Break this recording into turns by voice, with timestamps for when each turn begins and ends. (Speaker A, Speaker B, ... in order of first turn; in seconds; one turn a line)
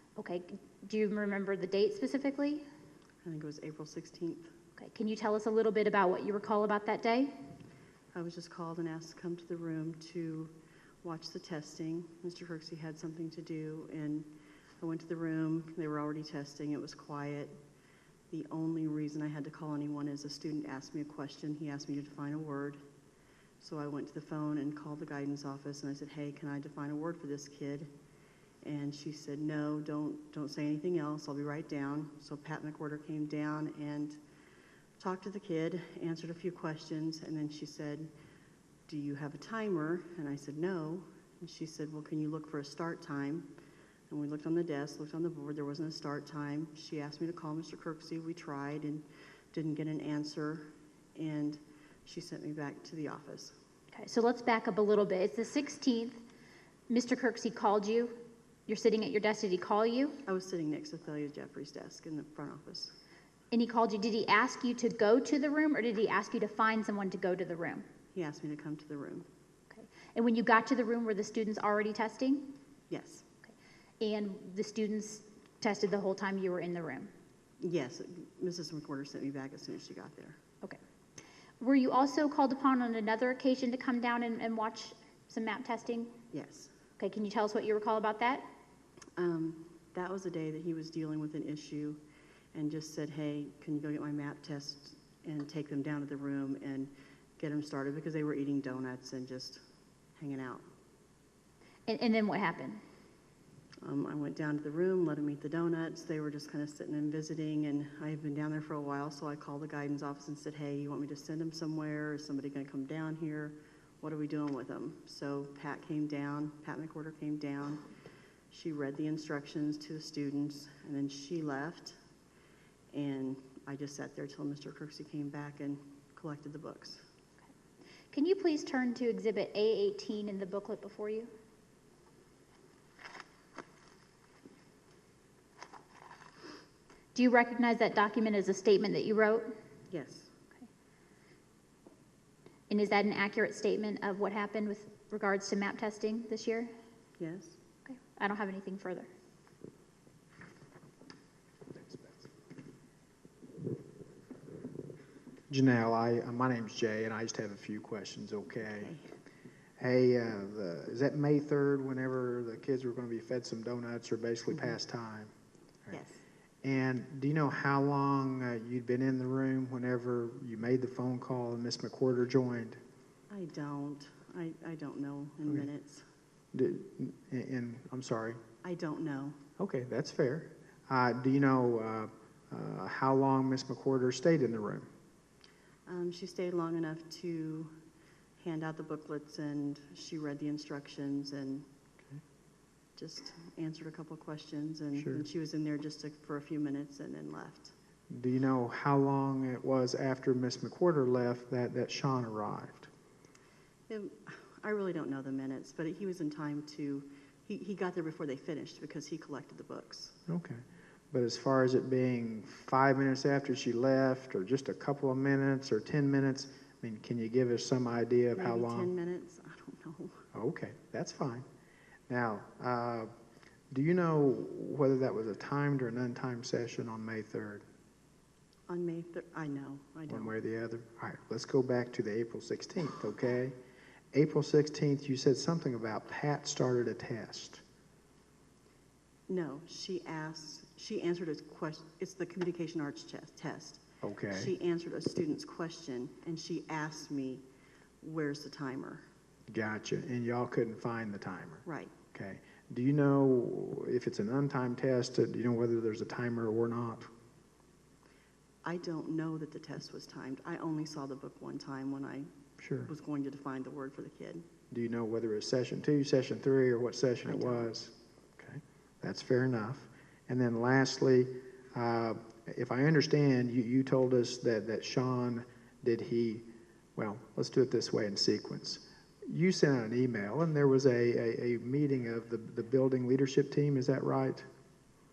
Speaker A: 0.1-2.6
Speaker B: 3.2-4.5
Speaker A: 4.8-7.3
Speaker B: 8.1-17.6
Speaker B: 18.3-22.8
Speaker B: 23.6-27.9
Speaker B: 28.6-34.2
Speaker B: 35.0-38.1
Speaker B: 38.9-43.5
Speaker B: 44.1-53.5
Speaker A: 53.9-56.2
Speaker A: 56.9-58.1
Speaker A: 58.7-60.2
Speaker B: 60.2-62.9
Speaker A: 63.5-67.8
Speaker B: 68.1-69.3
Speaker A: 69.7-72.5
Speaker B: 72.9-73.2
Speaker A: 74.0-77.1
Speaker B: 77.6-80.4
Speaker A: 81.6-86.1
Speaker B: 86.3-86.7
Speaker A: 87.0-88.5
Speaker B: 89.2-92.0
Speaker B: 92.5-99.6
Speaker B: 100.2-100.6
Speaker A: 101.9-102.8
Speaker B: 103.8-117.8
Speaker B: 118.5-122.0
Speaker B: 122.9-127.0
Speaker A: 128.1-131.3
Speaker A: 137.1-139.5
Speaker B: 139.9-140.3
Speaker A: 142.7-146.7
Speaker B: 147.2-147.6
Speaker A: 147.8-149.1
Speaker C: 151.8-152.2
Speaker C: 155.5-158.9
Speaker B: 158.8-159.1
Speaker C: 159.8-165.3
Speaker B: 165.9-166.2
Speaker C: 166.6-172.8
Speaker B: 173.3-176.0
Speaker C: 176.5-178.4
Speaker B: 178.6-179.4
Speaker C: 179.6-184.9
Speaker B: 185.9-187.7
Speaker B: 188.4-191.7
Speaker B: 192.9-197.7
Speaker C: 194.9-195.2
Speaker C: 198.1-202.9
Speaker B: 203.9-210.2
Speaker C: 210.3-218.9
Speaker B: 218.3-220.2
Speaker C: 220.3-221.4
Speaker C: 222.1-223.1
Speaker C: 223.7-227.6
Speaker B: 228.7-230.3
Speaker C: 230.1-233.5
Speaker C: 234.1-237.6
Speaker B: 239.3-247.4
Speaker C: 244.0-244.5
Speaker B: 248.0-249.0
Speaker C: 249.5-257.1
Speaker B: 251.6-251.9
Speaker B: 258.6-262.3
Speaker C: 262.6-262.9
Speaker B: 262.8-264.4
Speaker C: 264.7-276.4
Speaker B: 267.2-267.7
Speaker C: 276.9-284.4